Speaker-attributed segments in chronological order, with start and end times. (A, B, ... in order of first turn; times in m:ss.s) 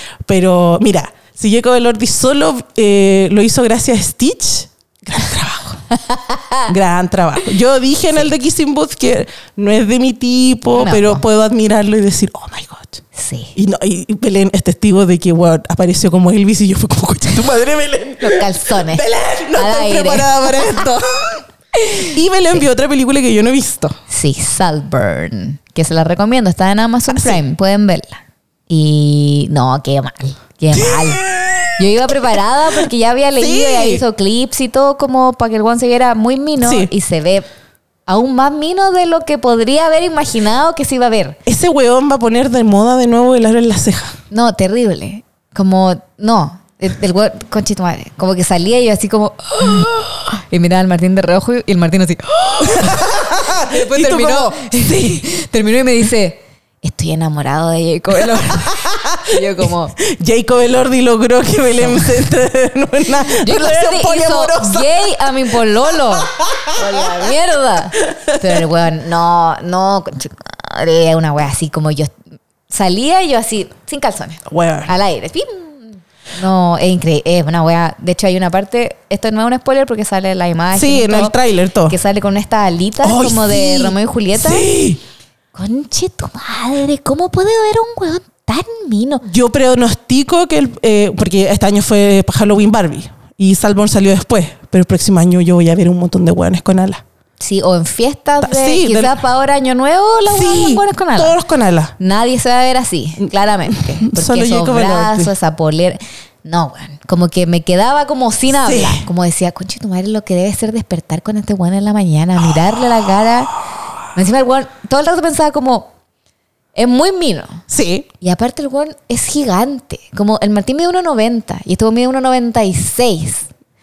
0:00.2-0:05.9 A
0:06.1-0:06.6 B
0:06.6-0:13.0 A
0:10.7-0:11.2 B
0:13.1-0:13.5 B
0:13.5-0:24.0 A
0:18.2-0:20.9 B
0:24.1-0:31.2 B
0:27.1-0:27.4 A
0:30.7-0:32.1 A
0:31.8-0:37.5 B
0:33.4-0:34.0 A
0:36.6-0:36.9 A
0:38.1-0:41.4 B
0:41.4-0:44.2 A
0:44.3-0:59.9 B
0:52.6-0:55.2 A
0:58.6-0:59.4 A
1:00.0-1:05.1 A
1:01.8-1:02.3 B
1:03.2-1:12.1 B
1:06.4-1:06.7 A
1:08.0-1:08.4 A
1:12.7-1:21.3 B
1:14.5-1:14.9 A
1:20.7-1:22.0 A
1:21.9-1:24.7 B
1:23.0-1:25.0 A
1:25.5-1:29.2 B
1:29.2-1:37.0 A
1:37.4-1:41.4 B
1:38.4-1:39.1 A
1:40.3-1:41.9 A
1:42.0-1:53.5 B
1:43.7-1:45.3 A
1:48.6-1:49.0 A
1:54.1-1:55.9 B
1:56.7-1:57.6 B
1:57.7-1:58.1 A
1:58.2-2:03.5 B